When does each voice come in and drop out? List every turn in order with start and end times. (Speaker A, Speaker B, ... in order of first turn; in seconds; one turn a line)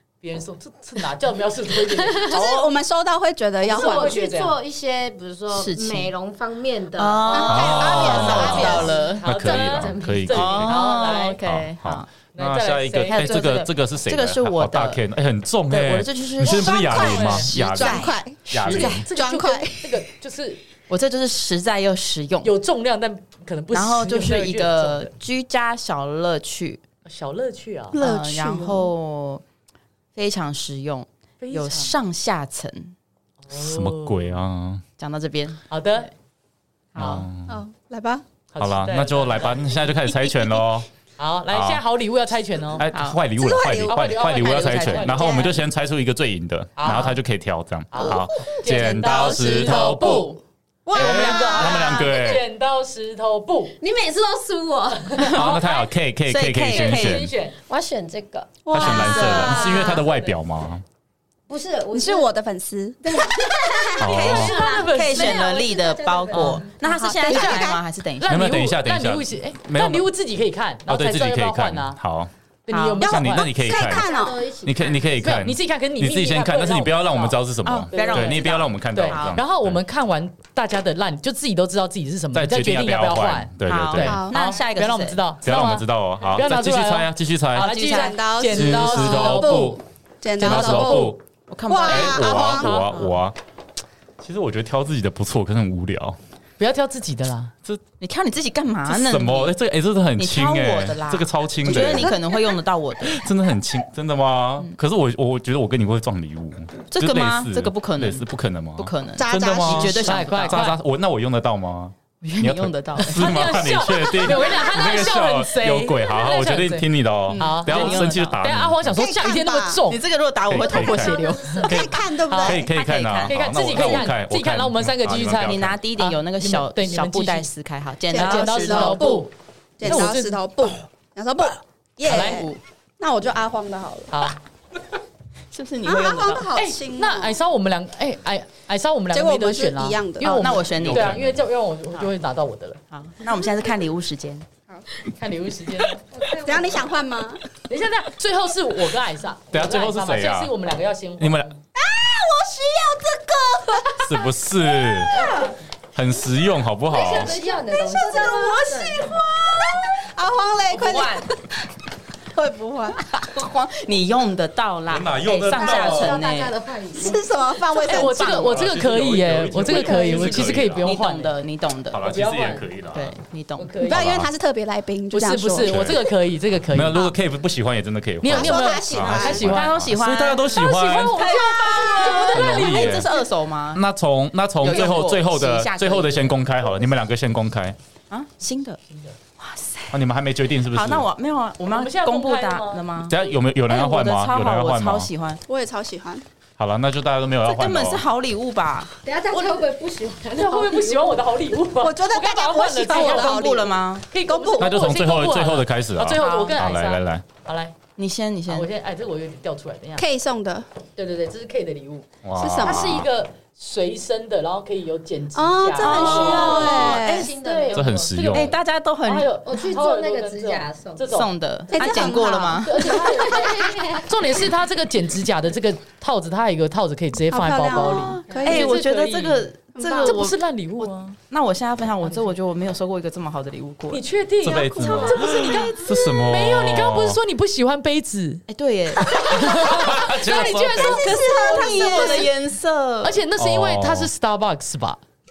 Speaker A: 0.2-2.4
Speaker B: 1.8-2.5
Speaker C: 2.3-4.2
Speaker A: 3.6-4.6
Speaker B: 3.6-10.4
Speaker D: 5.5-6.1
Speaker D: 7.0-9.2
Speaker C: 7.3-8.9
Speaker E: 7.5-10.8
Speaker A: 8.1-11.4
Speaker D: 10.3-12.1
Speaker E: 11.4-19.1
Speaker A: 12.3-13.4
Speaker D: 13.1-15.0
Speaker D: 15.7-19.0
Speaker C: 16.4-20.0
Speaker A: 17.0-17.5
Speaker A: 18.6-20.6
Speaker D: 20.9-22.5
Speaker A: 22.4-25.1
Speaker D: 23.7-26.8
Speaker A: 27.1-28.0
Speaker C: 27.9-28.9
Speaker D: 27.9-29.4
Speaker D: 30.1-32.9
Speaker A: 31.4-31.9
Speaker A: 33.5-34.2
Speaker E: 33.5-34.8
Speaker D: 35.0-36.1
Speaker A: 35.7-36.1
Speaker D: 37.0-37.3
Speaker E: 37.0-37.6
Speaker A: 37.0-37.2
Speaker C: 37.5-38.2
Speaker A: 38.5-39.9
Speaker E: 38.6-40.9
Speaker A: 41.2-42.8
Speaker E: 41.5-41.8
Speaker E: 42.8-50.3
Speaker D: 42.9-43.2
Speaker C: 43.4-44.1
Speaker A: 43.9-45.6
Speaker D: 44.4-45.4
Speaker C: 45.1-45.5
Speaker A: 46.8-47.2
Speaker A: 47.9-50.4
Speaker C: 48.7-50.2
Speaker D: 48.9-50.4
Speaker C: 50.9-52.2
Speaker E: 50.9-52.4
Speaker A: 50.9-53.8
Speaker B: 53.8-55.5
Speaker D: 55.2-57.3
Speaker A: 55.2-55.6
Speaker E: 55.3-57.3
Speaker A: 56.7-57.6
Speaker B: 57.6-60.0
Speaker C: 58.6-60.0
Speaker E: 58.7-60.8
Speaker D: 58.9-59.8
Speaker A: 59.9-60.3
Speaker B: 61.5-62.3
Speaker C: 61.9-63.9
Speaker B: 63.1-66.8
Speaker E: 64.0-64.5
Speaker A: 64.0-65.6
Speaker D: 64.1-68.6
Speaker A: 66.3-66.6
Speaker C: 66.8-67.8
Speaker A: 67.3-67.7
Speaker A: 68.2-72.0
Speaker E: 68.3-70.1
Speaker E: 70.9-72.3
Speaker A: 72.7-73.5
Speaker D: 72.7-73.1
Speaker E: 73.0-74.1
Speaker C: 73.0-74.5
Speaker B: 73.7-75.1
Speaker E: 74.6-79.8
Speaker A: 75.2-77.4
Speaker D: 77.6-79.4
Speaker A: 77.9-89.8
Speaker E: 82.3-84.2
Speaker D: 83.6-85.2
Speaker C: 84.0-84.3
Speaker E: 85.4-87.7
Speaker D: 87.6-88.2
Speaker C: 87.8-91.2
Speaker E: 88.5-89.8
Speaker E: 90.4-91.2
Speaker A: 90.4-91.0
Speaker D: 91.5-93.0
Speaker C: 91.7-92.8
Speaker E: 91.9-93.4
Speaker A: 92.3-93.0
Speaker E: 94.2-96.2
Speaker A: 96.6-97.5
Speaker D: 98.0-99.6
Speaker E: 98.9-102.2
Speaker D: 100.2-103.2
Speaker C: 101.7-102.2
Speaker E: 103.0-119.0
Speaker D: 106.9-108.2
Speaker D: 108.8-110.7
Speaker C: 109.2-110.2
Speaker A: 110.0-110.8
Speaker D: 112.2-113.6
Speaker A: 113.0-120.0
Speaker D: 117.3-118.4
Speaker C: 118.9-119.8
Speaker D: 119.9-121.9
Speaker E: 120.5-125.8
Speaker B: 121.0-121.6
Speaker C: 121.6-122.7
Speaker A: 122.3-122.6
Speaker D: 122.4-124.1
Speaker A: 123.3-127.5
Speaker D: 125.4-129.2
Speaker C: 128.1-129.3
Speaker A: 128.1-129.3
Speaker C: 129.8-134.3
Speaker A: 129.8-130.4
Speaker A: 132.0-132.5
Speaker D: 132.1-132.6
Speaker A: 134.1-134.4
Speaker D: 135.5-136.5
Speaker C: 135.8-137.4
Speaker A: 136.5-142.8
Speaker C: 139.1-140.4
Speaker D: 140.2-141.2
Speaker E: 140.7-141.4
Speaker D: 142.9-144.5
Speaker A: 145.1-146.0
Speaker B: 146.1-146.8
Speaker C: 146.4-147.4
Speaker A: 147.7-151.5
Speaker E: 149.5-150.5
Speaker E: 151.2-151.5
Speaker C: 151.8-155.3
Speaker E: 154.0-155.2
Speaker B: 155.2-155.5
Speaker E: 155.9-157.4
Speaker B: 156.9-159.2
Speaker C: 157.0-161.6
Speaker D: 160.7-161.3
Speaker C: 162.3-163.0
Speaker D: 163.1-166.5
Speaker E: 164.9-166.2
Speaker B: 165.4-167.2
Speaker C: 166.9-168.5
Speaker D: 167.8-168.6
Speaker A: 167.8-171.4
Speaker E: 168.2-170.9
Speaker D: 170.1-172.0
Speaker E: 171.9-173.1
Speaker A: 172.0-172.7
Speaker D: 172.9-173.8
Speaker A: 173.6-174.1
Speaker C: 173.8-176.0
Speaker E: 173.9-174.3
Speaker A: 175.1-177.1
Speaker E: 175.6-176.0
Speaker E: 176.7-181.3
Speaker A: 178.2-179.8
Speaker C: 178.3-179.5
Speaker D: 179.3-183.8
Speaker A: 180.4-183.1
Speaker E: 182.3-183.1
Speaker E: 183.7-187.8
Speaker D: 184.6-186.3
Speaker D: 188.1-188.8
Speaker D: 189.4-190.0
Speaker E: 189.9-191.1
Speaker D: 190.7-195.4
Speaker A: 191.7-192.9
Speaker E: 193.0-195.1
Speaker C: 195.5-196.2
Speaker E: 196.6-198.0
Speaker D: 197.4-198.9
Speaker B: 199.0-201.2
Speaker A: 199.3-199.7
Speaker A: 200.3-207.8
Speaker C: 201.8-204.9
Speaker D: 202.9-204.0
Speaker E: 204.6-207.2
Speaker D: 208.0-208.7
Speaker A: 208.5-210.0
Speaker C: 210.0-210.7
Speaker A: 211.0-212.1
Speaker E: 212.2-213.1
Speaker C: 212.3-213.1
Speaker A: 212.6-218.5
Speaker C: 215.3-217.3
Speaker D: 215.8-217.0
Speaker B: 215.9-218.5
Speaker E: 217.7-218.5
Speaker D: 218.3-219.3
Speaker A: 219.0-221.3
Speaker B: 219.4-221.2
Speaker D: 221.1-222.9
Speaker C: 221.7-222.8
Speaker A: 222.6-231.2
Speaker B: 222.8-224.1
Speaker C: 227.3-228.7
Speaker D: 227.8-234.0
Speaker B: 228.3-228.6
Speaker C: 229.8-230.2
Speaker A: 233.9-238.4
Speaker E: 234.4-237.2
Speaker C: 234.6-235.5
Speaker D: 238.5-239.8
Speaker A: 238.9-242.3
Speaker E: 239.5-241.2
Speaker C: 240.7-242.3
Speaker D: 241.0-243.2
Speaker A: 243.0-245.0
Speaker E: 243.4-244.1